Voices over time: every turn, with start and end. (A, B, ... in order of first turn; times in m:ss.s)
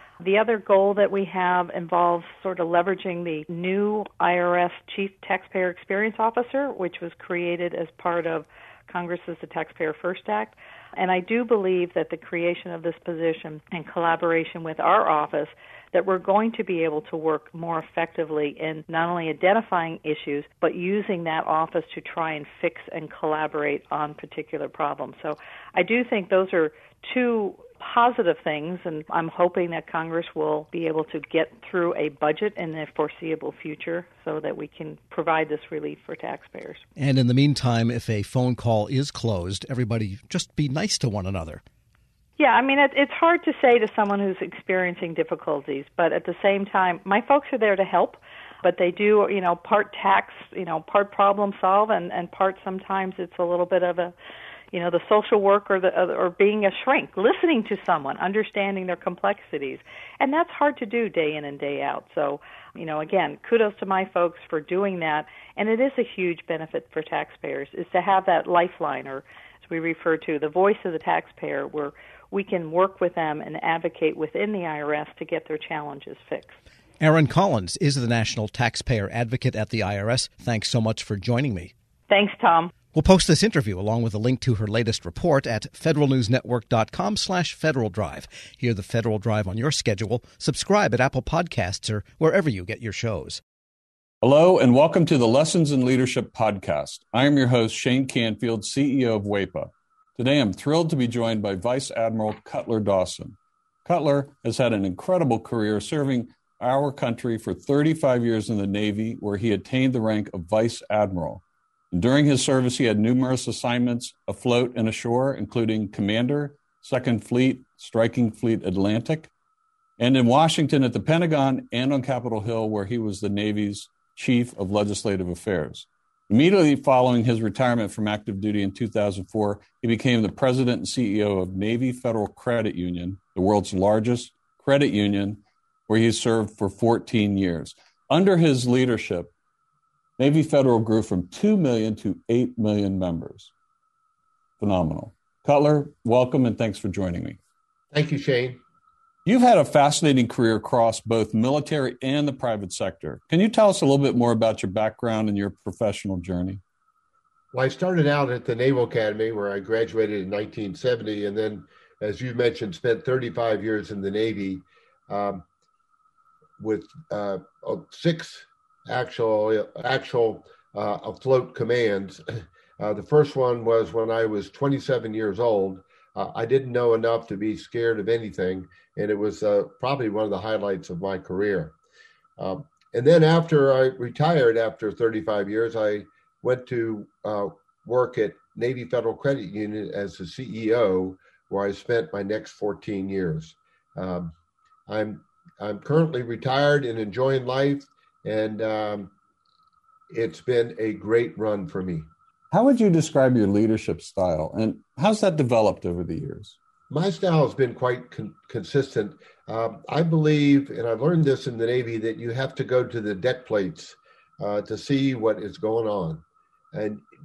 0:00.2-0:36.8 A
0:37.0-0:41.6 B
0:42.4-0:54.1 A
0:54.7-1:16.6 A
1:17.0-1:21.7 B
1:22.1-1:22.7 A
1:22.9-1:33.4 B
1:34.2-1:59.3 C
2:00.0-2:19.3 C
2:20.2-2:23.5 C
2:24.6-2:27.4 C
2:27.9-2:28.6 D
2:29.2-2:36.6 C
2:37.5-2:45.4 D
2:46.6-3:01.8 D
3:02.4-3:14.3 D
3:14.9-3:19.1 D
3:20.1-3:22.1 D
3:22.5-3:26.6 C
3:26.9-3:37.0 D